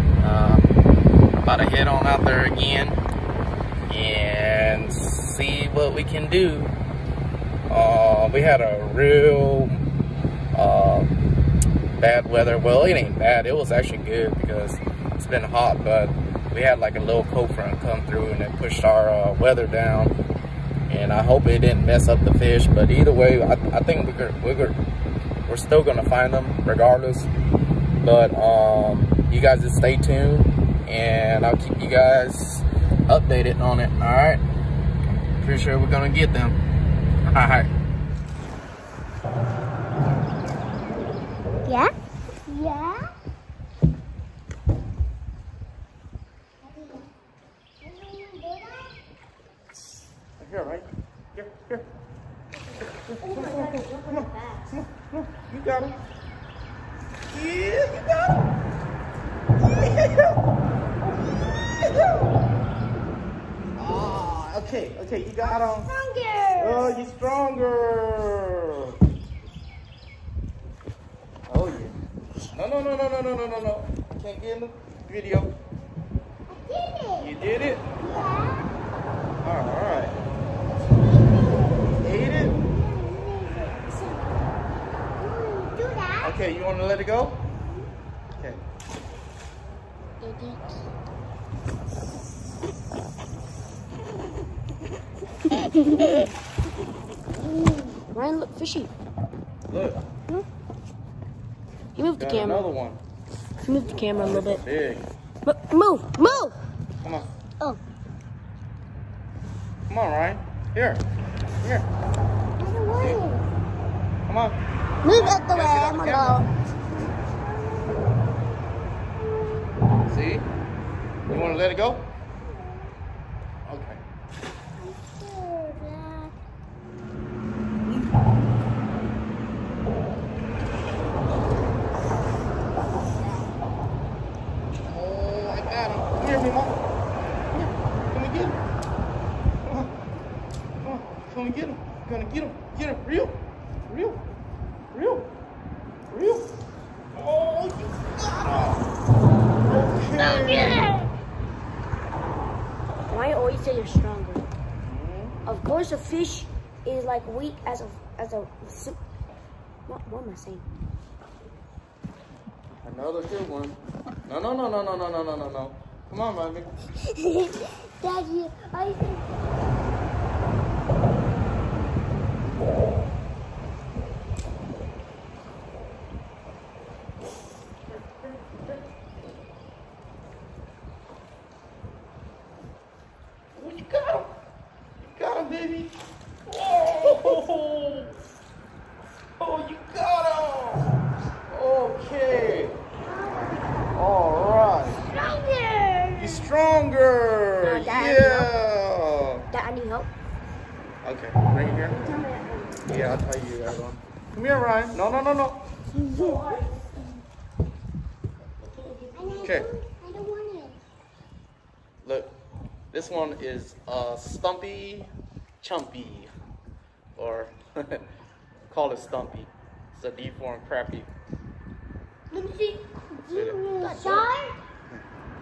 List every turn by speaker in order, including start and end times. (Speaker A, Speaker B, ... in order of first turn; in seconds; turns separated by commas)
Speaker A: 0.2-0.7, Speaker A: 1.4-3.0, Speaker A: 3.9-6.7, Speaker A: 7.7-9.8, Speaker A: 10.5-11.1, Speaker A: 12.0-20.1, Speaker A: 20.9-24.8, Speaker A: 25.4-27.3, Speaker A: 28.0-34.4, Speaker A: 35.4-36.6, Speaker A: 37.2-37.7, Speaker B: 41.6-41.9, Speaker B: 42.5-43.1, Speaker B: 46.7-47.0, Speaker B: 47.8-48.9, Speaker A: 50.4-51.9, Speaker A: 53.1-56.0, Speaker C: 53.2-54.7, Speaker A: 57.3-58.5, Speaker A: 59.6-60.4, Speaker A: 61.8-62.3, Speaker A: 63.8-65.9, Speaker B: 65.4-67.0, Speaker A: 66.6-69.0, Speaker A: 71.5-71.9, Speaker A: 72.5-75.5, Speaker B: 76.5-77.3, Speaker A: 77.1-77.8, Speaker B: 78.0-78.7, Speaker A: 79.4-80.1, Speaker B: 81.2-84.3, Speaker A: 82.0-82.5, Speaker B: 85.2-86.4, Speaker A: 86.2-87.4, Speaker A: 88.3-88.6, Speaker C: 90.2-90.7, Speaker C: 95.7-96.1, Speaker C: 98.1-98.9, Speaker A: 99.7-100.0, Speaker C: 101.9-102.7, Speaker A: 102.2-103.0, Speaker C: 103.6-104.6, Speaker A: 104.1-105.0, Speaker C: 105.4-106.5, Speaker A: 107.0-107.3, Speaker A: 109.9-111.0, Speaker A: 111.6-111.9, Speaker B: 112.6-113.5, Speaker A: 114.3-114.6, Speaker C: 115.0-116.4, Speaker B: 115.0-116.2, Speaker A: 115.3-116.4, Speaker B: 117.4-119.7, Speaker A: 120.1-120.5, Speaker A: 121.3-122.1, Speaker B: 122.4-122.9, Speaker A: 123.7-124.0, Speaker B: 124.8-126.3, Speaker A: 134.8-136.8, Speaker A: 137.5-138.6, Speaker A: 139.6-139.9, Speaker A: 140.8-144.2, Speaker A: 144.9-145.3, Speaker A: 146.1-146.5, Speaker A: 147.1-148.9, Speaker A: 149.6-150.9, Speaker C: 150.3-151.0, Speaker C: 153.1-154.5, Speaker A: 154.8-155.4, Speaker C: 155.4-159.0, Speaker C: 159.9-160.6, Speaker A: 162.8-166.7, Speaker B: 167.2-169.2, Speaker A: 177.9-178.7, Speaker A: 183.5-184.3, Speaker A: 185.0-188.2, Speaker A: 189.4-192.8, Speaker B: 193.1-193.6, Speaker A: 193.9-195.0, Speaker B: 195.1-196.5, Speaker A: 196.1-199.5, Speaker C: 197.6-198.5, Speaker C: 199.5-200.1, Speaker A: 201.0-202.2, Speaker C: 201.9-203.0, Speaker A: 202.8-205.6, Speaker B: 206.0-206.6, Speaker C: 206.0-206.7, Speaker C: 208.7-209.6, Speaker B: 209.2-210.8, Speaker A: 209.4-209.7, Speaker A: 212.0-212.3, Speaker A: 212.9-216.3, Speaker A: 217.2-218.0, Speaker A: 218.7-221.1, Speaker B: 222.3-224.6, Speaker A: 223.3-223.6, Speaker C: 223.7-224.3